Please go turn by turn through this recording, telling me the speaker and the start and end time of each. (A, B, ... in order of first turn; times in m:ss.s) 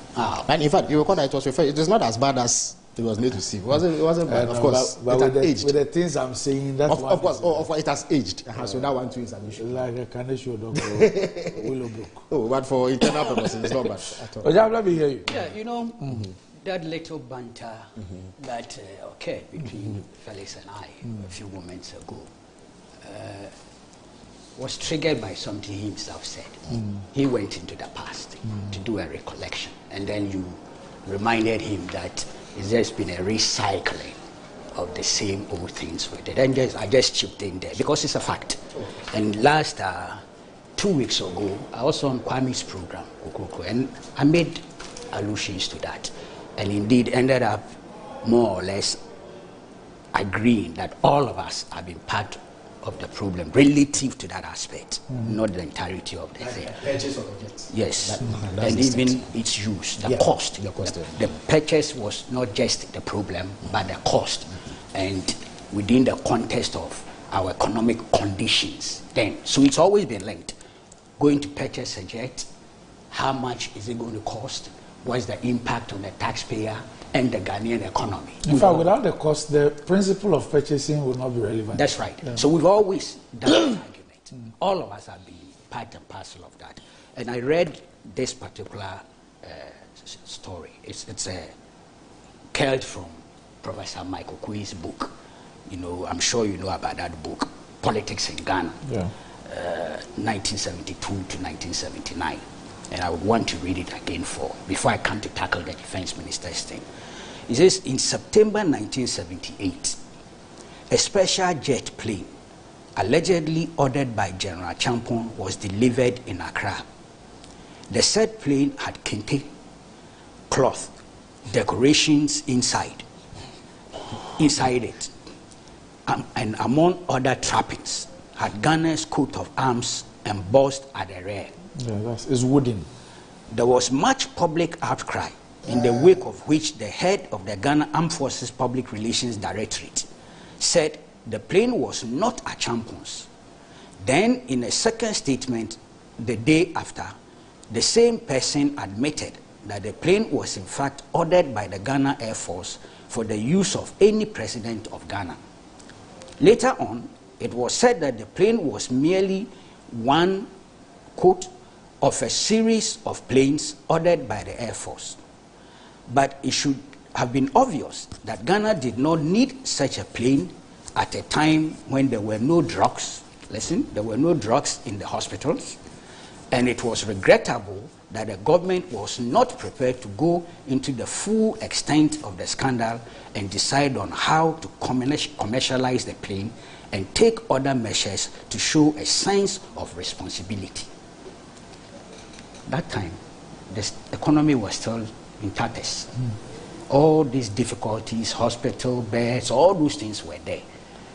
0:00.2-0:00.4 A
0:00.4-0:05.7 B
0:04.3-0:07.6 C
0:06.9-0:09.8 B
0:08.6-0:08.9 C
0:09.6-0:12.3 C
0:10.7-0:11.6 B
0:12.3-0:14.6 B
0:14.4-0:15.4 C
0:15.3-0:22.3 A
0:16.0-0:16.2 C
0:23.0-0:23.5 A
0:24.6-0:34.2 A
0:34.7-0:40.2 A
0:40.8-0:47.7 A
0:48.2-0:49.0 A
0:50.1-0:56.9 A
0:56.6-0:59.2 B
0:57.7-1:10.6 A
1:00.1-1:01.1 B
1:11.2-1:12.4 A
1:13.1-1:18.9 A
1:18.4-1:22.4 C
1:21.7-1:31.5 A
1:32.5-1:35.1 A
1:35.7-1:38.8 A
1:38.8-1:39.1 C
1:39.4-1:46.9 A
1:47.5-1:50.0 A
1:50.9-1:52.3 A
1:53.0-1:56.8 A
1:57.9-1:59.5 A
2:00.5-2:00.9 A
2:01.5-2:03.0 A
2:04.4-2:05.1 A
2:06.1-2:11.5 A
2:11.8-2:12.9 C
2:13.5-2:20.1 A
2:20.6-2:23.3 A
2:24.0-2:27.1 A
2:27.7-2:35.4 A
2:36.4-2:40.5 A
2:41.2-2:41.5 A
2:42.0-2:45.2 A
2:46.1-2:55.8 A
2:56.5-3:10.9 A
3:12.7-3:16.1 A
3:16.9-3:20.6 A